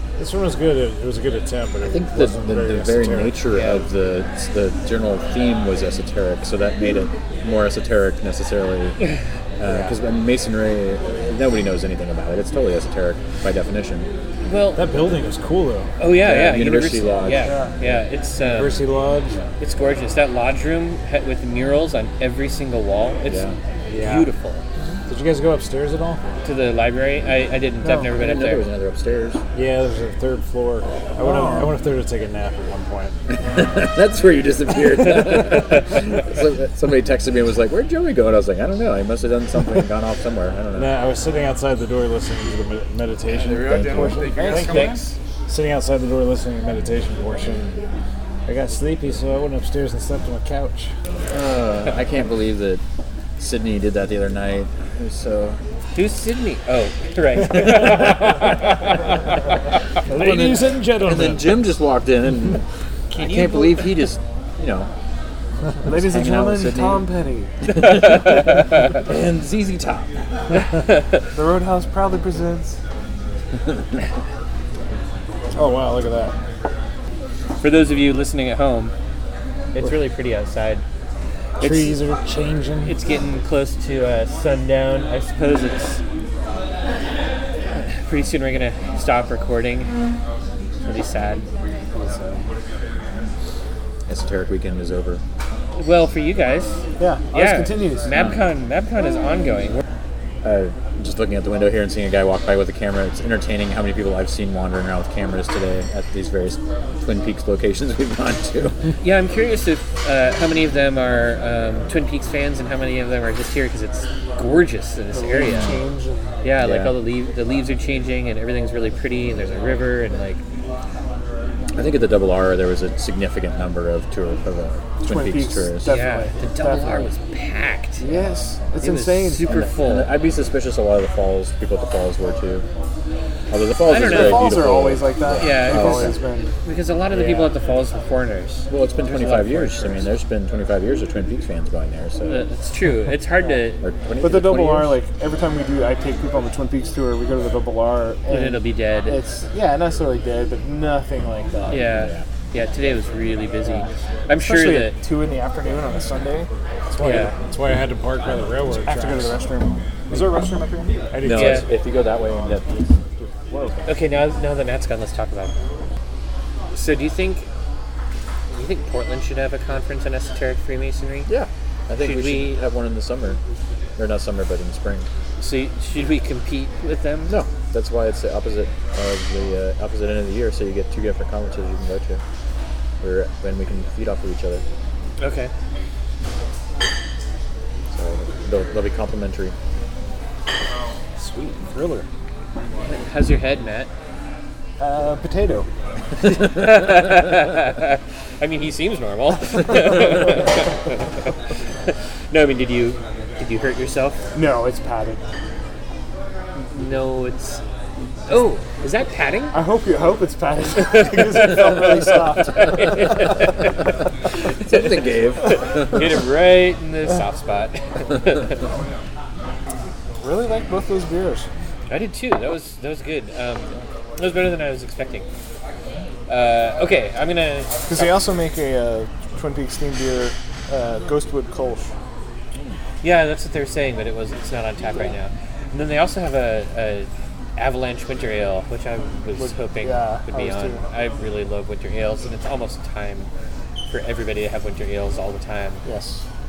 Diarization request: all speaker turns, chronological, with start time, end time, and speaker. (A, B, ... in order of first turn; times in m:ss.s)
0:00.2-0:03.4 A
0:01.8-0:09.0 B
0:03.5-0:03.8 C
0:09.6-0:14.1 B
0:14.4-0:14.8 C
0:14.8-0:15.9 A
0:16.0-0:18.8 C
0:16.2-0:18.0 B
0:17.4-0:17.7 D
0:18.4-0:19.4 A
0:19.6-0:23.4 C
0:23.2-0:23.6 B
0:23.9-0:24.3 A
0:24.0-0:24.6 C
0:25.1-0:26.2 A
0:26.4-0:28.6 C
0:27.8-0:28.1 D
0:28.1-0:29.4 B
0:29.5-0:33.2 A
0:31.2-0:31.7 D
0:33.3-0:40.9 B
0:35.4-0:35.8 C
0:40.7-0:47.8 A
0:43.4-0:44.9 B
0:43.9-0:45.0 D
0:44.7-0:45.1 C
0:48.4-0:50.9 A
0:51.3-0:52.8 B
0:53.4-0:55.6 B
0:55.9-0:59.5 C
1:00.0-1:01.6 A
1:00.1-1:04.9 B
1:03.1-1:03.9 C
1:05.8-1:07.5 D
1:05.8-1:07.1 B
1:07.7-1:10.2 B
1:07.7-1:09.0 C
1:10.6-1:11.2 C
1:11.3-1:12.8 D
1:15.5-1:16.4 A
1:17.6-1:18.9 C
1:19.7-1:20.8 C
1:21.6-1:22.0 C
1:21.6-1:23.0 A
1:22.8-1:26.0 C
1:27.7-1:29.9 C
1:30.8-1:31.5 C
1:34.1-1:35.2 B
1:35.8-1:39.8 C
1:37.0-1:38.1 D
1:38.1-1:38.5 B
1:40.4-1:48.8 B
1:49.0-1:55.8 C
1:55.1-1:56.4 D
1:56.4-2:00.4 C
1:56.6-1:56.9 B
2:01.7-2:06.0 B
2:05.0-2:07.1 D
2:05.8-2:08.1 C
2:08.0-2:08.4 B
2:08.0-2:09.6 D
2:08.8-2:10.1 C
2:09.4-2:12.7 B
2:13.5-2:16.2 B
2:13.8-2:14.6 C
2:14.0-2:16.5 D
2:15.4-2:20.1 C
2:17.1-2:17.5 B
2:18.7-2:22.5 B
2:22.2-2:23.8 C
2:23.8-2:24.9 B
2:24.2-2:31.9 D
2:28.3-2:29.2 C
2:31.7-2:35.0 C
2:31.9-2:32.3 B
2:33.6-2:36.5 D
2:36.9-2:39.4 A
2:37.0-2:37.4 C
2:38.7-2:41.1 D
2:41.1-2:41.6 A
2:41.2-2:43.9 B
2:41.3-2:41.7 C
2:43.9-2:45.5 C
2:46.7-2:47.5 C
2:48.5-2:51.3 C
2:51.2-2:53.4 B
2:52.0-2:52.6 C
2:54.0-2:55.1 B
2:55.4-2:57.4 C
2:57.3-3:02.2 B
3:03.0-3:04.6 B
3:05.2-3:05.5 C
3:07.9-3:09.6 B
3:11.2-3:12.1 A
3:12.8-3:13.9 C
3:14.8-3:15.7 D
3:16.2-3:21.3 C
3:21.9-3:24.2 C
3:24.3-3:25.2 D
3:26.5-3:27.6 C
3:28.3-3:29.6 C
3:29.5-3:33.5 D
3:30.8-3:38.6 C
3:34.6-3:36.1 B
3:40.2-3:41.5 D
3:41.9-3:45.3 C
3:46.3-3:48.2 C
3:47.9-3:51.9 D
3:53.0-4:03.3 C
3:59.3-4:00.9 D
4:03.9-4:05.8 C
4:05.8-4:06.3 D